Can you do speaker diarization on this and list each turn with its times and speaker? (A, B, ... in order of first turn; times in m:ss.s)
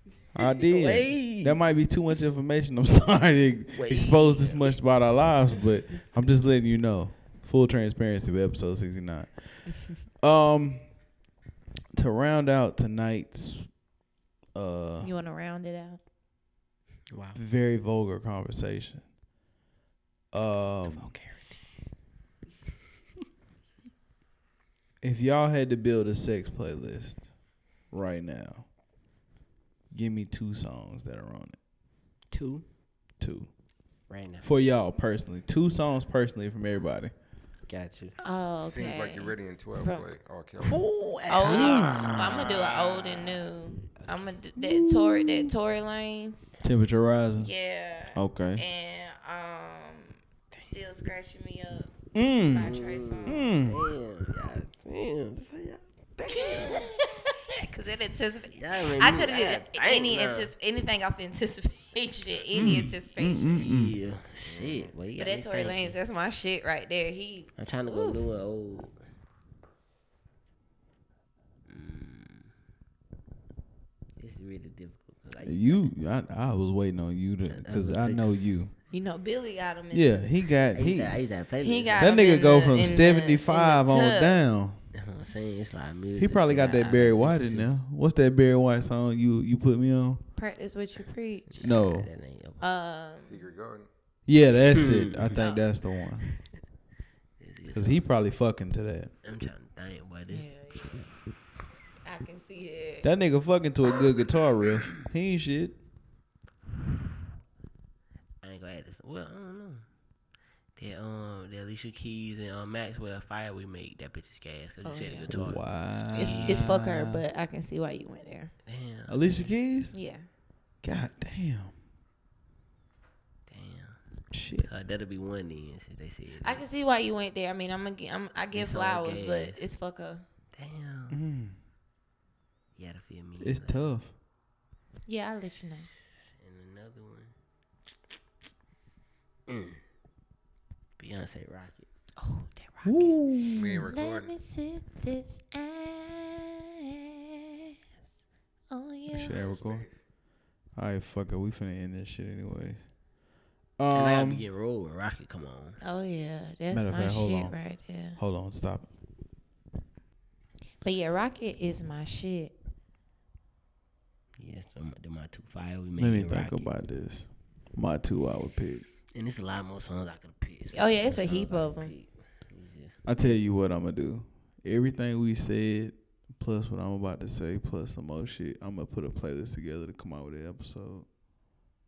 0:00.3-0:10.8 A
0:00.4-0:01.6 B
0:03.7-0:04.7 B
0:11.9-0:13.7 A
0:14.5-0:15.1 A
0:15.0-0:16.0 C
0:17.1-0:17.4 B
0:17.3-0:19.0 A
0:20.3-0:21.1 A
0:20.9-0:21.6 B
0:25.0-0:27.2 A
0:27.9-0:28.6 A
0:29.9-0:31.6 A
0:32.3-0:32.6 B
0:33.2-0:33.5 A
0:34.1-0:34.4 B
0:34.4-0:37.1 A
0:37.7-0:38.1 B
0:38.2-0:40.1 C
0:38.6-0:40.8 D
0:40.6-0:43.4 B
0:41.3-0:46.5 C
0:44.0-0:44.3 B
0:44.6-0:45.5 A
0:46.6-0:47.5 A
0:47.4-0:53.7 C
0:48.1-0:48.6 A
0:52.1-0:53.8 A
0:52.6-0:57.0 B
0:56.3-1:03.6 C
0:58.5-1:00.5 B
1:02.5-1:04.0 A
1:03.6-1:05.9 B
1:04.4-1:04.9 D
1:05.2-1:08.2 C
1:07.6-1:08.9 B
1:11.7-1:12.5 B
1:14.2-1:15.9 B
1:15.4-1:18.7 A
1:17.5-1:18.5 B
1:18.9-1:20.2 C
1:19.9-1:21.2 A
1:20.7-1:22.2 B
1:21.6-1:24.4 C
1:22.0-1:24.8 A
1:24.9-1:27.7 B
1:26.2-1:30.2 A
1:30.4-1:31.7 C
1:31.5-1:32.6 B
1:31.6-1:32.1 A
1:32.6-1:33.4 C
1:33.2-1:33.9 D
1:34.3-1:36.3 A
1:34.7-1:35.3 B
1:35.3-1:35.6 C
1:37.4-1:38.0 B
1:37.7-1:39.1 A
1:39.2-1:41.0 B
1:40.3-1:41.1 C
1:42.0-1:43.1 C
1:43.0-1:45.8 A
1:48.4-1:49.8 B
1:50.8-1:56.6 B
1:54.8-1:55.3 C
1:55.3-1:57.2 A
1:56.1-1:58.5 C
1:58.6-1:59.5 B
1:59.1-1:59.9 A
1:59.9-2:00.2 C
2:00.8-2:01.7 A
2:03.5-2:04.0 B
2:04.3-2:04.7 A
2:04.6-2:06.6 B
2:06.4-2:10.2 C
2:08.5-2:09.6 B
2:10.5-2:11.2 B
2:11.1-2:11.6 A
2:12.8-2:13.8 B
2:13.4-2:14.1 A
2:15.0-2:15.9 C
2:16.4-2:17.3 B
2:19.5-2:19.8 B
2:21.0-2:21.9 B
2:22.2-2:23.2 C
2:22.8-2:23.9 A
2:23.5-2:24.3 D
2:23.9-2:27.7 C
2:28.7-2:29.4 C
2:29.1-2:29.8 A
2:29.3-2:30.0 D
2:30.8-2:32.8 A
2:33.8-2:34.4 A
2:33.9-2:35.8 B
2:35.8-2:38.2 C
2:36.7-2:37.5 A
2:38.2-2:38.9 A
2:40.8-2:42.5 C
2:44.4-2:46.7 B
2:46.0-2:48.8 A
2:49.1-2:53.0 B
2:50.7-2:51.9 C
2:53.0-3:01.1 A